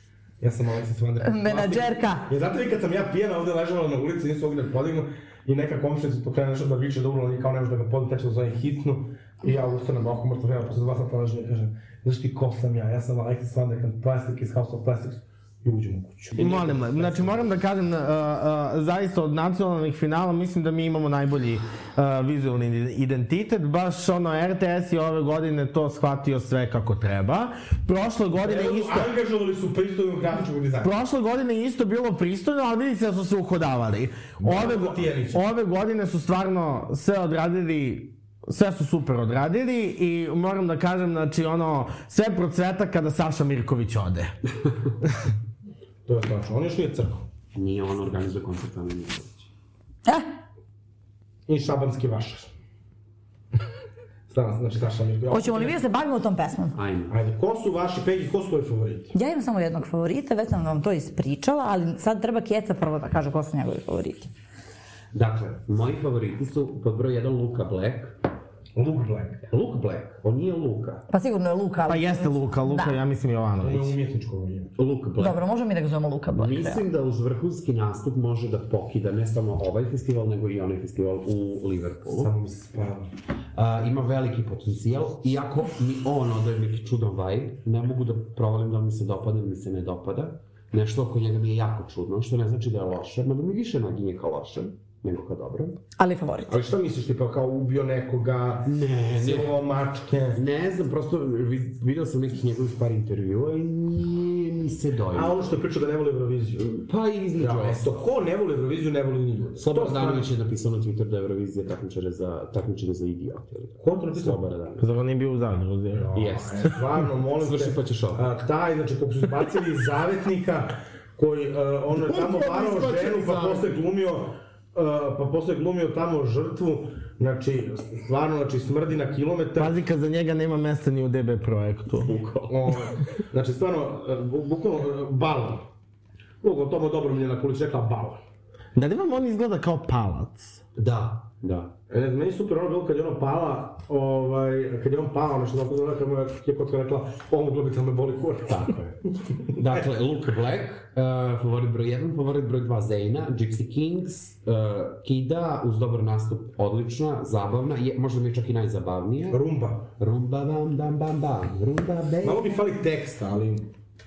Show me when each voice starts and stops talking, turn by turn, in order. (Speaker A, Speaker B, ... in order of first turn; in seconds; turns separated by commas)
Speaker A: 0.4-17.4, Speaker B: 1.2-2.3, Speaker C: 16.4-29.1, Speaker A: 28.4-30.9, Speaker C: 30.8-44.3, Speaker A: 34.4-35.4, Speaker A: 46.0-47.2, Speaker D: 47.5-49.5, Speaker A: 51.5-52.5, Speaker A: 54.3-55.8, Speaker B: 55.3-56.8, Speaker D: 56.7-57.1, Speaker A: 57.1-59.1, Speaker B: 59.1-64.3, Speaker D: 65.1-68.2, Speaker A: 68.8-69.4, Speaker D: 69.5-71.0, Speaker B: 71.1-73.0, Speaker C: 71.9-74.0, Speaker A: 73.6-74.7, Speaker D: 74.8-75.4, Speaker B: 75.2-76.8, Speaker D: 76.3-82.3, Speaker A: 82.2-83.1, Speaker D: 83.5-95.8, Speaker B: 96.0-96.5, Speaker A: 96.5-100.4, Speaker D: 98.7-99.5, Speaker D: 100.3-105.5, Speaker A: 105.1-106.6, Speaker D: 106.5-108.1, Speaker A: 107.4-110.3, Speaker D: 109.6-114.8, Speaker A: 113.8-114.5, Speaker C: 114.8-116.2, Speaker A: 116.0-129.7, Speaker D: 116.1-118.3, Speaker D: 122.0-123.7, Speaker C: 129.6-132.2, Speaker D: 132.1-132.5, Speaker A: 132.5-135.6, Speaker A: 136.4-138.2, Speaker C: 138.7-140.6, Speaker D: 140.7-141.7, Speaker A: 141.9-148.8, Speaker D: 148.5-148.9, Speaker D: 149.5-159.4, Speaker A: 159.3-159.8, Speaker D: 160.0-162.6, Speaker A: 162.2-163.7